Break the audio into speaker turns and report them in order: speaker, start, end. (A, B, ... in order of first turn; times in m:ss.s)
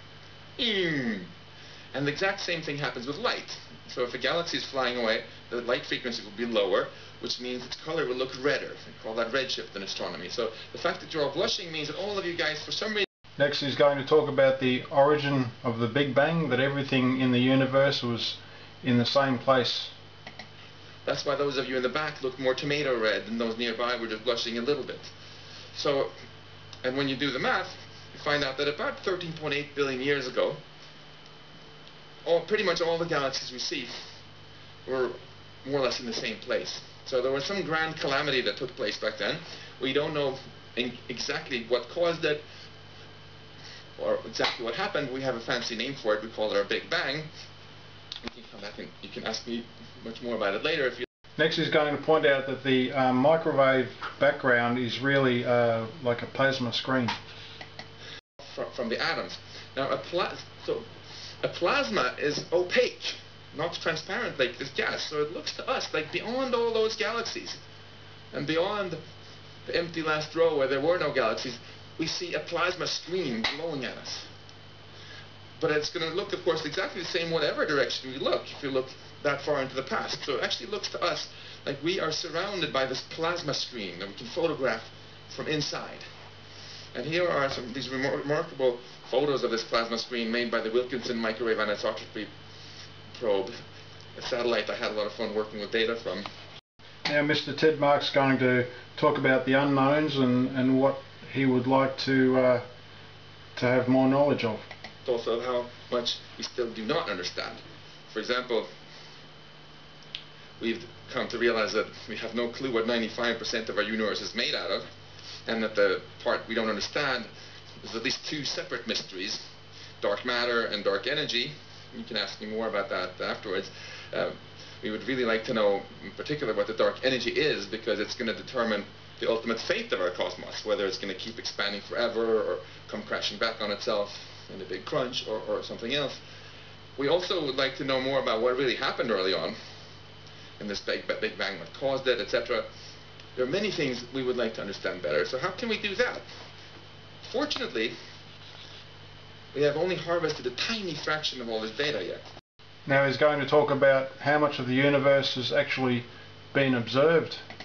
0:00.6-0:01.3 A
0:01.9-0:13.1 A
0:13.4-0:19.9 B
0:21.0-0:25.1 A
0:25.7-0:26.1 A
0:26.8-0:30.6 A
0:32.2-0:34.2 A
0:34.8-0:42.4 A
0:44.0-0:47.3 A
0:48.2-0:51.1 A
0:51.4-0:57.2 B
0:58.4-1:00.9 A
1:01.4-1:07.6 A
1:08.3-1:09.0 A
1:09.7-1:14.3 A
1:15.6-1:26.0 A
1:26.9-1:32.3 A
1:33.1-1:33.6 A
1:34.2-1:36.3 A
1:37.1-1:42.6 B
1:43.6-1:44.7 B
1:45.0-1:48.7 A
1:50.6-1:54.9 A
1:55.5-1:57.3 A
1:57.8-1:59.4 A
2:00.0-2:16.2 A
2:17.0-2:19.6 A
2:20.6-2:22.7 A
2:23.4-2:26.2 A
2:27.2-2:28.0 A
2:29.5-2:32.2 A
2:32.9-2:37.4 B